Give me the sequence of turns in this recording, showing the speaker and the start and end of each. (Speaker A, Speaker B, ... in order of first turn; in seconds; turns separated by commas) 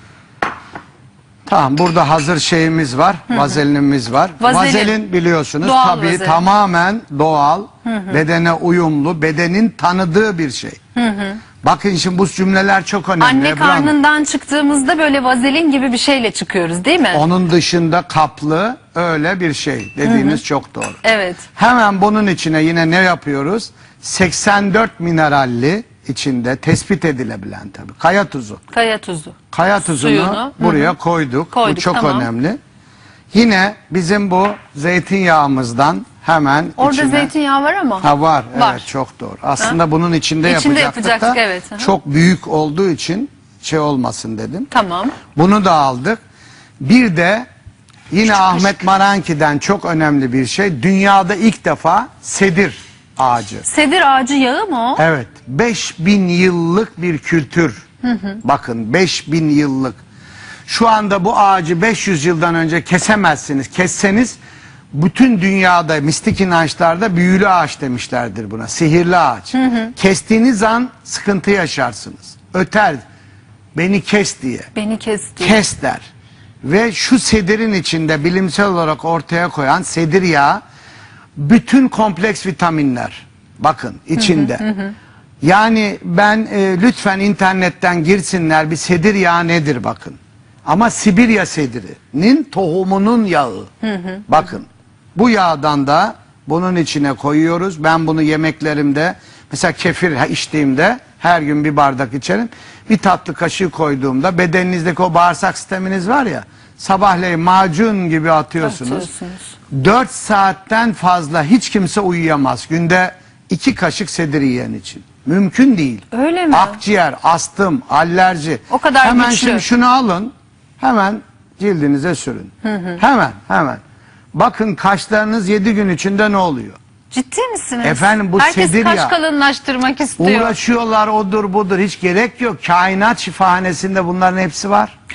Speaker A: 1.5-10.8, Speaker B: 3.3-3.6, Speaker B: 4.4-5.0, Speaker B: 5.6-6.4, Speaker B: 7.8-8.2, Speaker B: 11.0-11.4, Speaker A: 11.6-13.9, Speaker B: 13.2-17.2, Speaker A: 17.1-21.0, Speaker B: 20.1-20.4, Speaker B: 21.0-21.4, Speaker A: 21.6-28.6, Speaker B: 28.7-30.9, Speaker A: 29.5-32.6, Speaker B: 31.5-32.3, Speaker A: 33.3-37.3, Speaker B: 36.8-38.9, Speaker A: 38.0-44.7, Speaker B: 40.4-41.9, Speaker B: 44.7-45.2, Speaker A: 45.4-46.2, Speaker A: 46.8-47.5, Speaker A: 48.1-53.7, Speaker B: 48.2-48.8, Speaker B: 53.6-55.0, Speaker A: 55.0-57.8, Speaker B: 58.0-58.4, Speaker A: 58.4-60.0, Speaker A: 60.7-64.4, Speaker A: 64.9-73.0, Speaker B: 69.5-69.9, Speaker A: 73.8-74.7, Speaker B: 74.8-75.6, Speaker A: 75.4-76.1, Speaker A: 76.6-80.6, Speaker A: 81.4-84.6, Speaker B: 84.2-85.0, Speaker A: 85.4-93.7, Speaker B: 93.8-94.3, Speaker A: 94.3-109.1, Speaker B: 108.6-109.5, Speaker A: 109.7-123.8, Speaker B: 116.1-116.8, Speaker B: 118.7-119.7, Speaker B: 122.7-123.0, Speaker A: 124.3-126.8, Speaker B: 127.1-130.6, Speaker A: 127.8-129.1, Speaker A: 130.2-134.9